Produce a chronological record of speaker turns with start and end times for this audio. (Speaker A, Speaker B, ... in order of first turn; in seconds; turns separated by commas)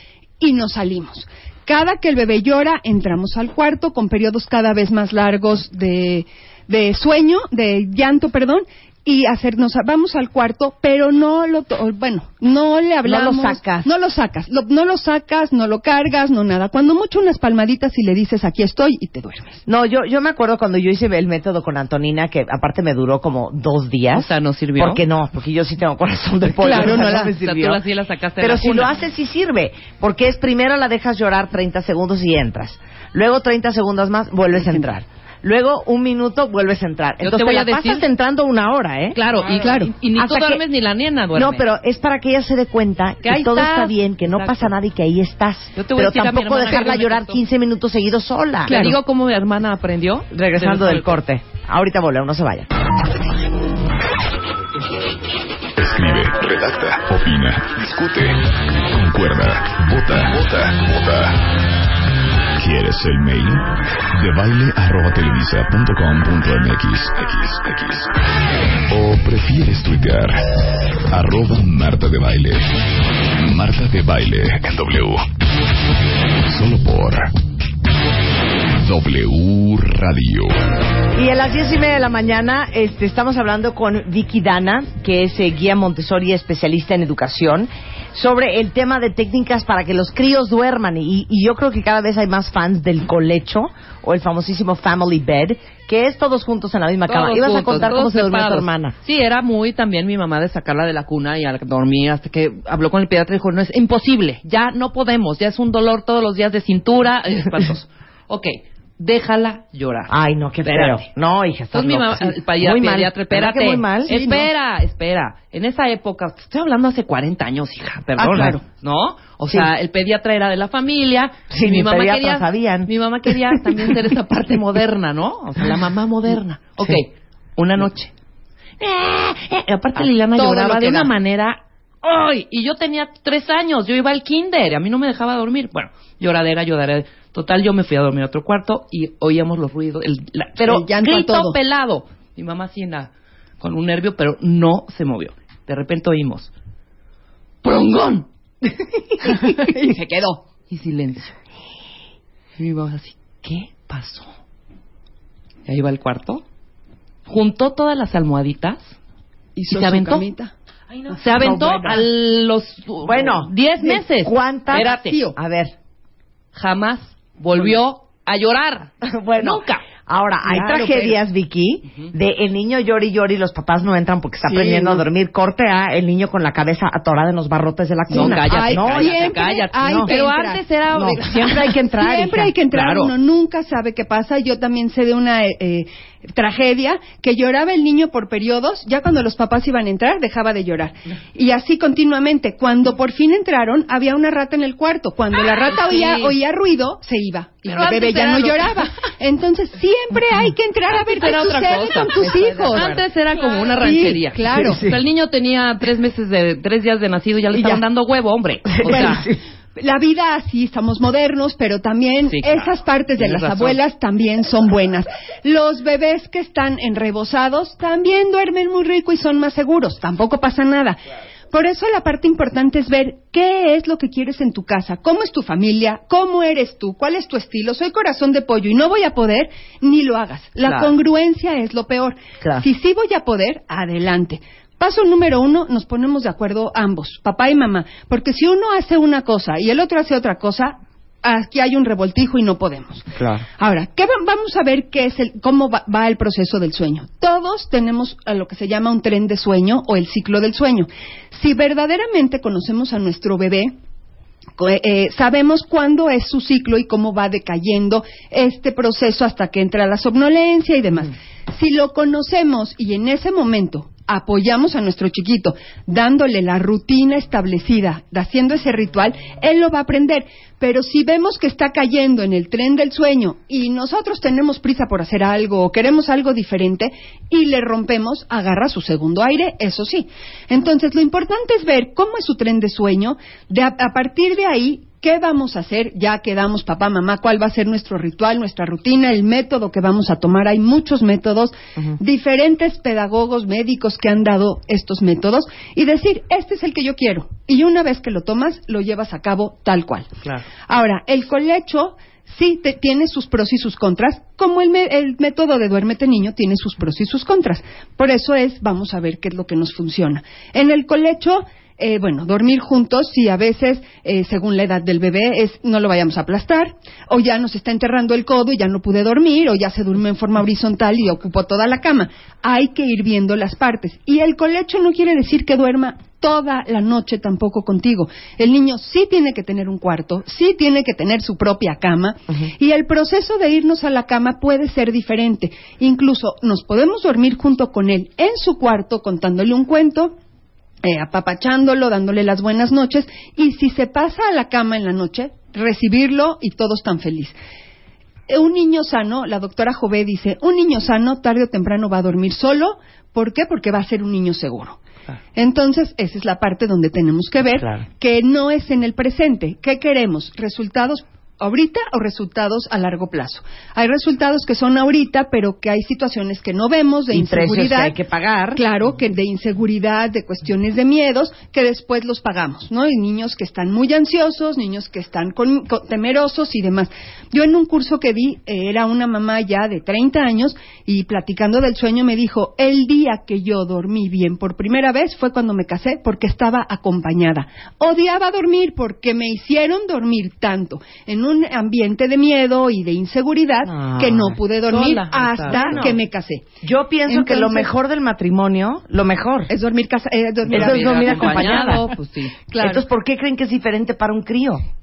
Speaker A: 0.4-19.6, Speaker B: 13.0-13.8, Speaker B: 19.7-27.8, Speaker C: 24.1-25.0, Speaker A: 26.6-27.3, Speaker C: 26.6-29.0, Speaker B: 28.4-39.2, Speaker C: 37.2-38.0, Speaker C: 39.2-41.6, Speaker A: 39.4-39.9, Speaker B: 40.1-40.6, Speaker B: 41.3-48.8, Speaker C: 43.2-44.7, Speaker C: 45.8-47.4, Speaker C: 48.7-51.2, Speaker A: 48.7-49.0, Speaker B: 50.3-52.7, Speaker D: 55.8-61.5, Speaker D: 62.6-68.1, Speaker D: 68.9-70.4, Speaker D: 71.1-72.7, Speaker D: 73.3-75.2, Speaker D: 76.4-77.3, Speaker D: 78.7-80.5, Speaker B: 81.1-99.0, Speaker C: 97.1-110.1, Speaker B: 110.1-114.2, Speaker C: 110.6-111.1, Speaker C: 111.7-128.1, Speaker A: 114.1-114.5, Speaker A: 118.2-118.6, Speaker B: 121.5-124.0, Speaker C: 128.8-143.1, Speaker A: 130.4-131.0, Speaker B: 130.7-131.0, Speaker A: 140.6-141.6, Speaker C: 143.6-146.5, Speaker C: 147.6-148.8, Speaker A: 149.2-150.4, Speaker C: 150.7-151.3, Speaker C: 152.6-154.3, Speaker C: 155.7-156.4, Speaker C: 157.3-159.0, Speaker A: 159.6-160.5, Speaker C: 159.7-160.2, Speaker A: 161.1-162.0, Speaker C: 161.1-165.2, Speaker B: 161.4-162.0, Speaker B: 163.0-165.7, Speaker A: 164.7-165.4, Speaker C: 166.6-169.8, Speaker B: 169.0-180.1, Speaker A: 170.5-171.2, Speaker A: 174.5-175.0, Speaker A: 178.1-180.7, Speaker C: 178.1-181.9, Speaker B: 180.9-182.5, Speaker A: 182.0-203.0, Speaker C: 182.7-183.1, Speaker C: 195.5-196.4, Speaker C: 197.7-198.9, Speaker C: 200.9-209.3, Speaker B: 202.3-203.0, Speaker A: 203.7-204.8, Speaker B: 204.6-205.0, Speaker A: 207.6-207.8, Speaker B: 208.8-209.4, Speaker A: 208.9-209.2, Speaker A: 209.8-221.0, Speaker C: 212.3-213.8, Speaker A: 221.5-243.1, Speaker C: 230.6-230.9, Speaker B: 243.2-243.4, Speaker A: 243.6-253.8, Speaker A: 254.6-300.1, Speaker A: 300.7-340.2, Speaker A: 340.8-347.4, Speaker A: 348.3-354.8, Speaker A: 355.4-367.9, Speaker B: 367.1-368.6, Speaker A: 368.6-396.5, Speaker B: 393.6-394.4, Speaker C: 394.7-396.0, Speaker B: 395.5-396.0, Speaker B: 396.6-399.5, Speaker A: 397.1-397.7, Speaker A: 399.5-401.9, Speaker B: 400.4-401.9, Speaker C: 400.5-402.4, Speaker A: 402.5-402.9, Speaker B: 402.6-404.6